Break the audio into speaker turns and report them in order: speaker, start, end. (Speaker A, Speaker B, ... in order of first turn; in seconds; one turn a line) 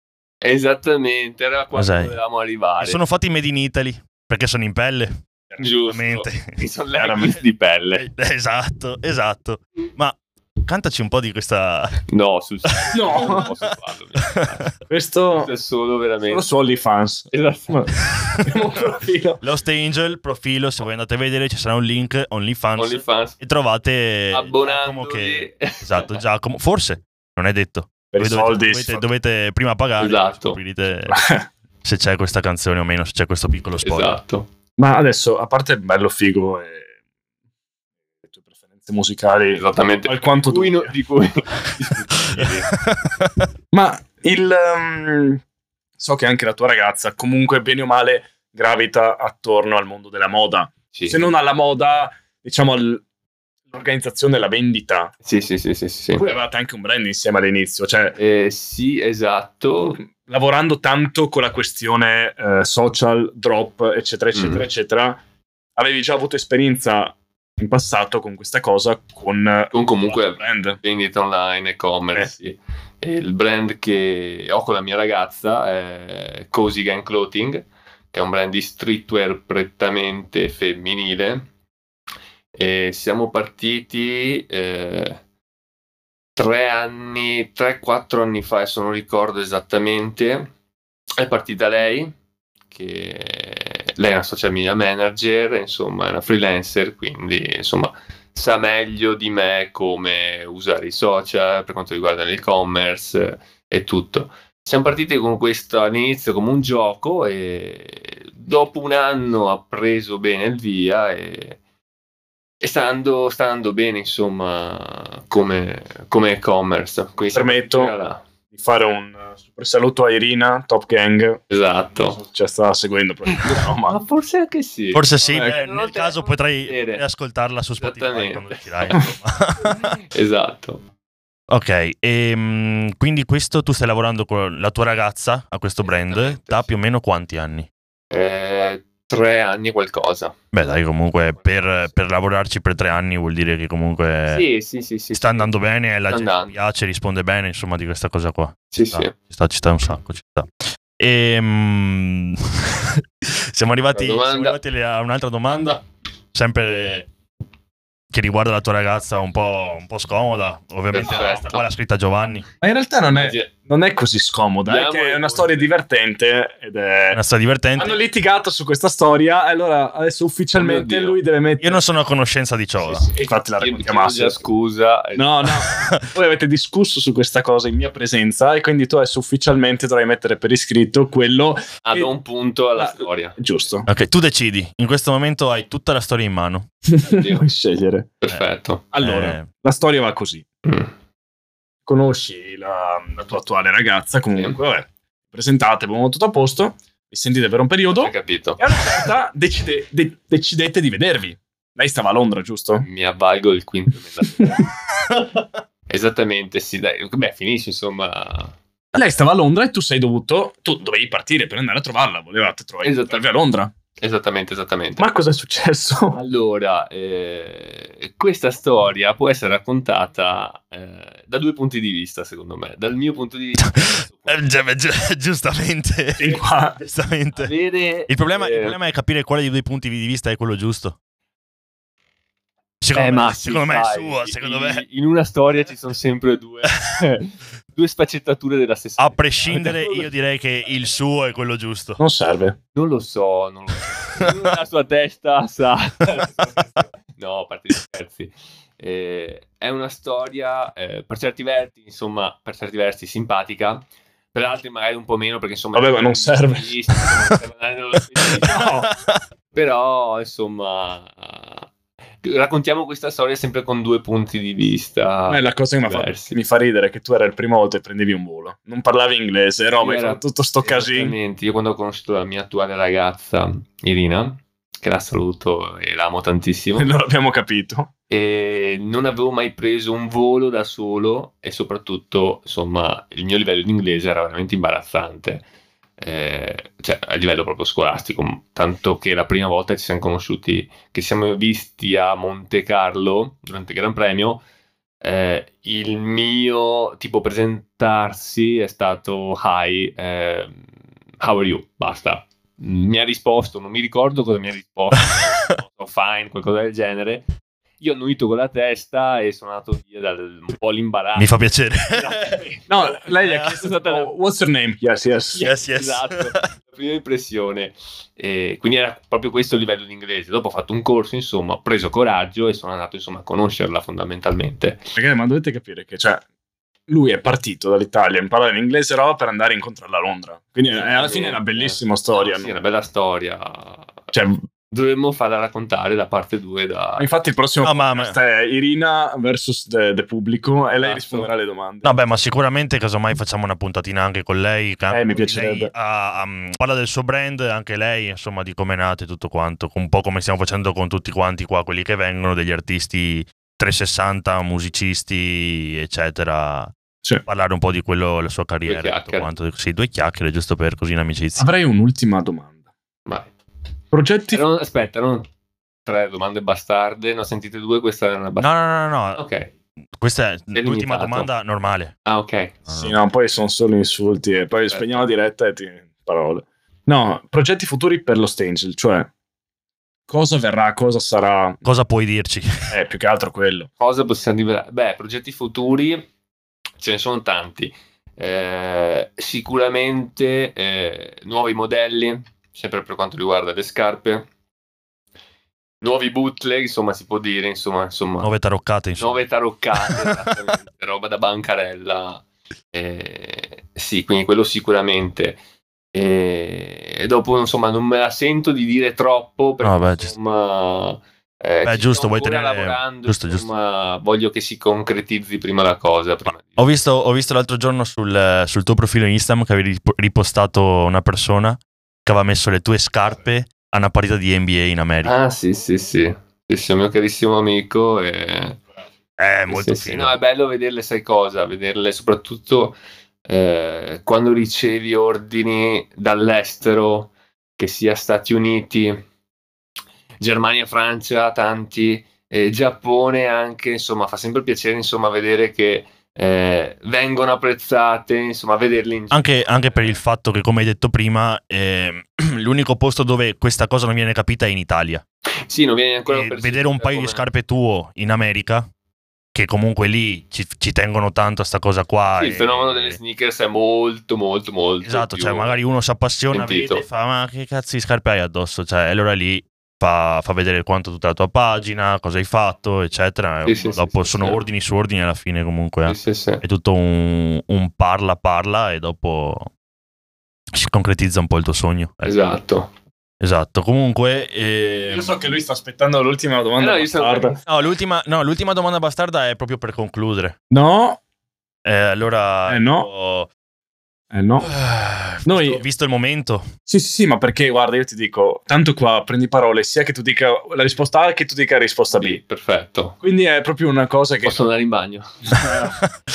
Speaker A: 0.4-3.0
Speaker B: 1.7-2.2
Speaker B: 2.8-5.2
Speaker A: 5.6-8.1
Speaker B: 5.9-6.6
Speaker C: 7.0-7.3
Speaker B: 8.0-12.0
Speaker A: 12.1-14.7
Speaker B: 12.7-13.7
Speaker C: 12.9-13.5
Speaker C: 14.9-15.5
Speaker A: 15.3-16.4
Speaker C: 16.2-19.4
Speaker A: 17.3-18.1
Speaker B: 19.4-31.2
Speaker A: 22.8-23.4
Speaker A: 24.3-26.1
Speaker C: 28.1-29.1
Speaker A: 30.0-30.6
Speaker C: 31.1-31.5
Speaker B: 31.8-34.2
Speaker A: 33.8-34.5
Speaker C: 34.8-36.9
Speaker C: 38.2-40.9
Speaker A: 39.5-42.7
Speaker B: 42.4-43.5
Speaker C: 43.7-45.4
Speaker C: 46.0-53.0
Speaker A: 50.9-51.2
Speaker C: 53.7-55.1
Speaker A: 55.2-56.3
Speaker C: 56.2-58.2
Speaker A: 58.2-60.0
Speaker C: 59.9-65.2
Speaker A: 64.3-64.7
Speaker C: 65.8-70.8
Speaker A: 69.7-81.5
Speaker A: 82.5-85.2
Speaker A: 86.3-90.5
Speaker A: 91.2-92.2
Speaker A: 92.7-111.6
Speaker A: 112.6-118.2
Speaker C: 117.3-117.9
Speaker C: 118.5-121.4
Speaker A: 121.5-122.2
Speaker C: 122.0-124.0
Speaker A: 123.3-127.0
Speaker B: 124.9-130.0
Speaker A: 127.8-130.8
Speaker B: 131.5-137.7
Speaker A: 135.8-136.7
Speaker A: 138.1-140.7
Speaker B: 140.5-144.4
Speaker A: 141.3-141.9
Speaker A: 144.3-145.5
Speaker B: 145.1-157.1
Speaker A: 146.1-146.6
Speaker A: 148.7-149.1
Speaker A: 153.9-154.6
Speaker B: 158.1-162.4
Speaker A: 160.9-161.7
Speaker C: 162.6-167.2
Speaker A: 163.1-163.5
Speaker A: 164.6-165.7
Speaker B: 167.1-168.0
Speaker C: 167.8-171.8
Speaker A: 170.6-171.2
Speaker B: 171.6-173.0
Speaker C: 172.8-174.4
Speaker A: 173.6-175.7
Speaker C: 175.2-182.1
Speaker B: 175.7-175.9
Speaker A: 181.8-183.5
Speaker C: 182.8-183.9
Speaker B: 183.9-186.7
Speaker C: 186.9-188.1
Speaker A: 187.0-187.4
Speaker A: 188.2-188.8
Speaker C: 188.9-190.4
Speaker B: 189.0-189.5
Speaker A: 190.6-190.9
Speaker C: 191.9-202.8
Speaker A: 197.9-198.6
Speaker A: 202.8-204.6
Speaker C: 204.2-204.5
Speaker A: 205.9-208.6
Speaker C: 208.9-213.7
Speaker A: 212.8-213.2
Speaker A: 214.0-215.1
Speaker C: 215.0-216.2
Speaker A: 216.1-224.5
Speaker B: 223.6-227.5
Speaker C: 226.2-226.8
Speaker A: 227.3-228.8
Speaker B: 228.1-230.9
Speaker B: 232.8-234.8
Speaker A: 232.9-240.1
Speaker B: 239.0-242.0
Speaker C: 242.0-242.6
Speaker A: 242.7-258.8
Speaker C: 255.7-256.7
Speaker B: 258.2-259.2
Speaker C: 258.4-258.9
Speaker A: 259.5-261.7
Speaker A: 262.2-266.3
Speaker C: 265.3-271.1
Speaker A: 269.8-276.9
Speaker C: 276.8-277.9
Speaker A: 278.1-285.4
Speaker A: 286.0-294.4
Speaker A: 295.0-300.6
Speaker A: 301.2-307.2
Speaker A: 307.8-311.4
Speaker B: 311.1-312.4
Speaker A: 311.9-314.1
Speaker C: 312.7-315.5
Speaker B: 313.2-313.5
Speaker A: 315.3-324.9
Speaker B: 315.4-316.4
Speaker C: 324.9-326.2
Speaker C: 326.9-332.5
Speaker A: 330.7-334.0
Speaker C: 334.1-334.4
Speaker A: 334.7-337.1
Speaker C: 337.0-342.0
Speaker B: 337.6-338.2
Speaker A: 340.8-341.3
Speaker B: 341.8-356.7
Speaker C: 344.9-345.7
Speaker B: 357.2-361.5
Speaker A: 358.6-359.3
Speaker C: 361.4-362.5
Speaker C: 363.9-364.4
Speaker A: 364.3-365.3
Speaker A: 365.8-368.5
Speaker B: 368.4-369.2
Speaker A: 369.1-369.5
Speaker B: 370.0-371.9
Speaker A: 370.5-371.3
Speaker A: 372.1-372.6
Speaker B: 372.7-372.9
Speaker C: 372.7-379.1
Speaker A: 374.7-375.1
Speaker C: 380.1-381.6
Speaker B: 381.6-382.7
Speaker C: 382.7-383.7
Speaker A: 383.8-386.1
Speaker A: 386.8-394.3
Speaker A: 395.8-398.3
Speaker B: 398.2-399.2
Speaker A: 398.9-405.4
Speaker B: 399.8-400.2
Speaker A: 405.9-416.8
Speaker B: 409.6-410.1
Speaker B: 411.6-413.5
Speaker B: 416.6-425.1
Speaker A: 425.0-428.6
Speaker B: 429.2-430.1
Speaker A: 429.5-439.1
Speaker A: 440.2-450.0
Speaker B: 449.1-455.0
Speaker A: 455.4-457.3
Speaker B: 456.1-458.7
Speaker B: 459.3-463.0
Speaker A: 462.2-465.6
Speaker B: 464.8-479.5
Speaker A: 466.3-466.8
Speaker A: 473.4-474.4
Speaker A: 475.9-476.4
Speaker B: 480.5-482.1
Speaker A: 482.0-482.7
Speaker B: 483.2-485.2
Speaker C: 484.9-487.4
Speaker A: 486.6-487.6
Speaker B: 487.5-490.4
Speaker C: 490.5-491.0
Speaker B: 491.6-493.3
Speaker C: 492.5-492.9
Speaker C: 494.1-494.5
Speaker B: 494.4-496.4
Speaker C: 495.2-495.6
Speaker C: 496.6-502.2
Speaker A: 502.0-503.0
Speaker C: 503.0-504.4
Speaker A: 504.2-505.1
Speaker C: 505.3-505.8